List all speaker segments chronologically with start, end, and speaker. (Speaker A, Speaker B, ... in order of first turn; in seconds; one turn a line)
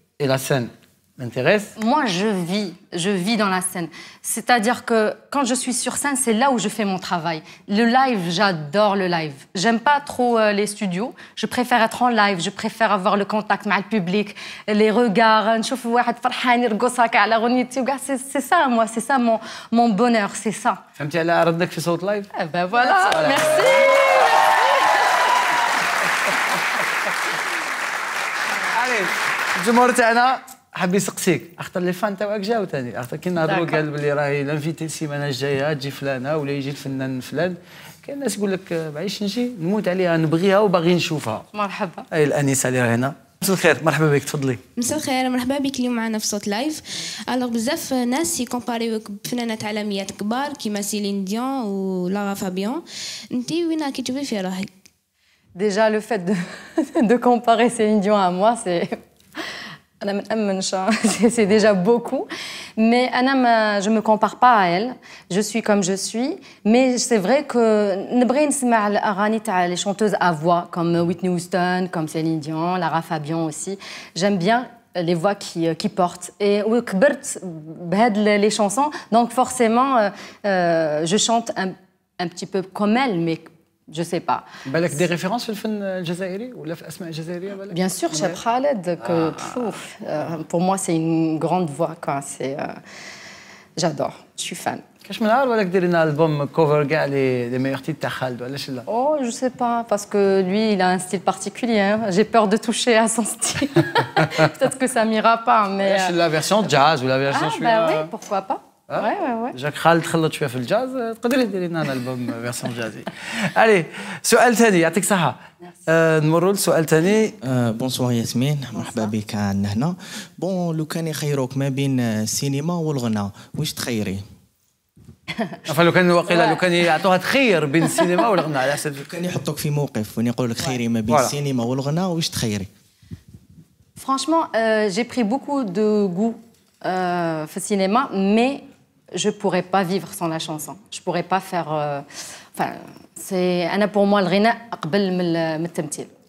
Speaker A: 0.2-1.7
Speaker B: 1.8-20.8
Speaker A: 21.0-24.1
Speaker B: 22.3-25.1
Speaker A: 28.7-41.5
Speaker B: 33.5-33.8
Speaker B: 41.5-42.1
Speaker A: 42.1-44.6
Speaker C: 44.8-54.8
Speaker B: 55.5-84.5
Speaker A: 84.7-88.4
Speaker B: 87.7-92.8
Speaker A: 89.0-89.5
Speaker B: 93.8-94.8
Speaker A: 95.0-98.8
Speaker B: 98.9-106.2
Speaker A: 104.0-104.3
Speaker A: 105.8-108.1
Speaker B: 107.3-109.5
Speaker A: 108.9-117.4
Speaker D: 117.4-124.2
Speaker A: 125.7-129.1
Speaker B: 126.3-126.6
Speaker D: 129.1-132.7
Speaker B: 134.0-146.1